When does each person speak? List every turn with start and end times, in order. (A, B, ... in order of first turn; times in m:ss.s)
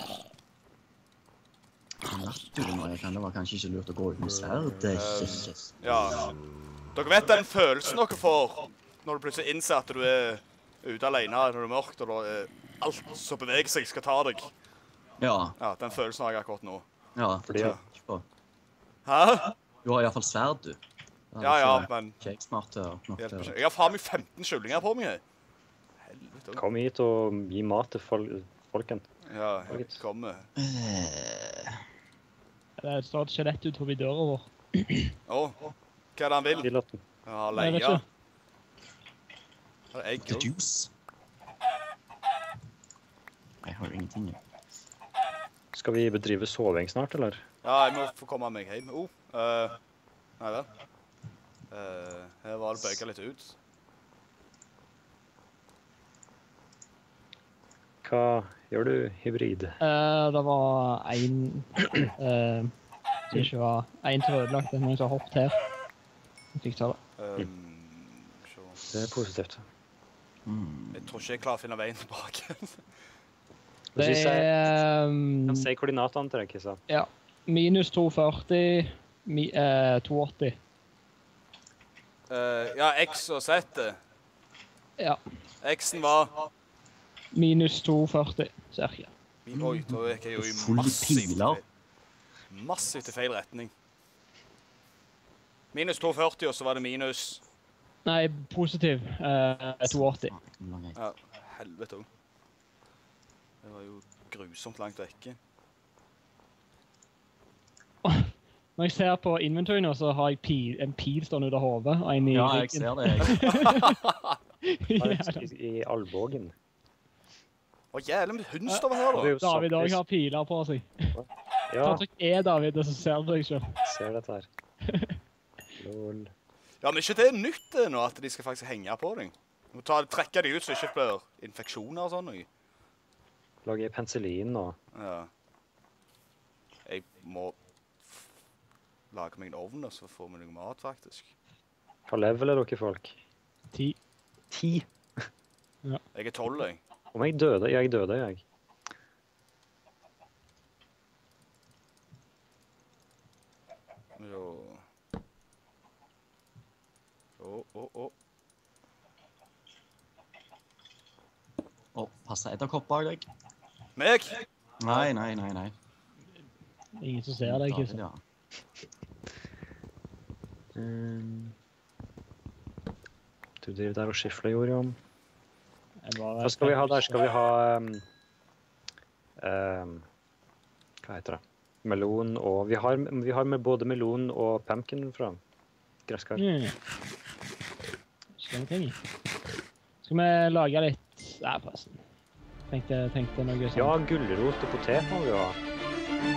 0:02.1-0:05.8 A
0:04.9-0:06.4 B
0:06.9-0:14.5 B
0:15.2-0:15.6 A
0:15.6-0:16.9 B
0:17.2-0:18.2 A
0:17.4-0:17.8 C
0:19.0-0:19.6 B
0:19.8-0:20.8 A
0:21.3-0:23.6 A
0:21.4-0:22.2 B
0:23.2-0:25.2 B
0:26.0-0:26.6 B
0:26.5-0:29.1 C
0:29.2-0:30.5 B
0:29.7-0:30.0 C
0:30.6-0:31.8 A
0:32.8-0:35.1 D
0:35.3-0:36.7 B
0:36.6-0:37.0 C
0:37.2-0:38.0 B
0:37.6-0:38.0 D
0:39.9-0:40.5 B
0:40.2-0:40.9 A
0:43.6-0:44.4 A
0:45.7-0:47.4 C
0:47.6-0:49.8 B
0:50.4-0:50.7 B
0:51.7-0:53.6 B
0:58.0-0:59.8 C
0:59.8-1:02.7 D
1:03.3-1:05.6 D
1:06.5-1:07.0 D
1:07.2-1:08.8 B
1:08.9-1:09.6 C
1:10.5-1:11.3 A
1:10.9-1:12.8 B
1:13.9-1:14.8 C
1:14.0-1:15.7 D
1:15.5-1:16.8 C
1:16.9-1:20.6 D
1:22.3-1:24.0 B
1:25.6-1:26.4 B
1:27.3-1:29.1 D
1:29.4-1:31.6 B
1:29.5-1:31.6 A
1:32.5-1:33.7 B
1:35.7-1:37.4 B
1:38.0-1:40.3 D
1:39.8-1:41.0 A
1:41.0-1:42.1 B
1:43.6-1:45.4 B
1:48.0-1:54.0 D
1:52.3-1:53.5 A
1:53.3-1:54.4 B
1:54.6-1:55.5 D
1:55.0-1:56.5 C
1:57.9-1:59.4 B
1:59.1-2:00.0 C
1:59.4-2:01.1 D
2:01.1-2:02.0 C
2:01.8-2:03.8 D
2:03.8-2:04.5 C
2:04.9-2:05.2 D
2:05.8-2:06.3 C
2:06.8-2:12.5 B
2:13.6-2:14.8 C
2:14.9-2:15.3 B
2:16.8-2:18.3 B
2:19.1-2:21.3 B
2:22.1-2:23.2 C
2:24.5-2:25.2 C
2:26.1-2:26.8 B
2:27.1-2:28.4 C
2:34.2-2:34.8 B
2:37.4-2:38.1 B
2:41.9-2:43.2 A
2:44.0-2:45.1 B
2:44.8-2:45.7 A
2:47.0-2:48.0 D
2:47.4-2:48.2 A
2:50.8-2:51.5 C
2:53.6-2:55.0 C
2:56.0-2:57.2 D
2:56.4-2:58.0 C
2:59.4-3:00.1 C
3:01.0-3:05.4 C
3:06.1-3:06.4 C
3:06.4-3:06.8 D
3:08.4-3:09.0 D
3:10.0-3:12.0 D
3:12.7-3:14.0 D
3:13.7-3:15.6 C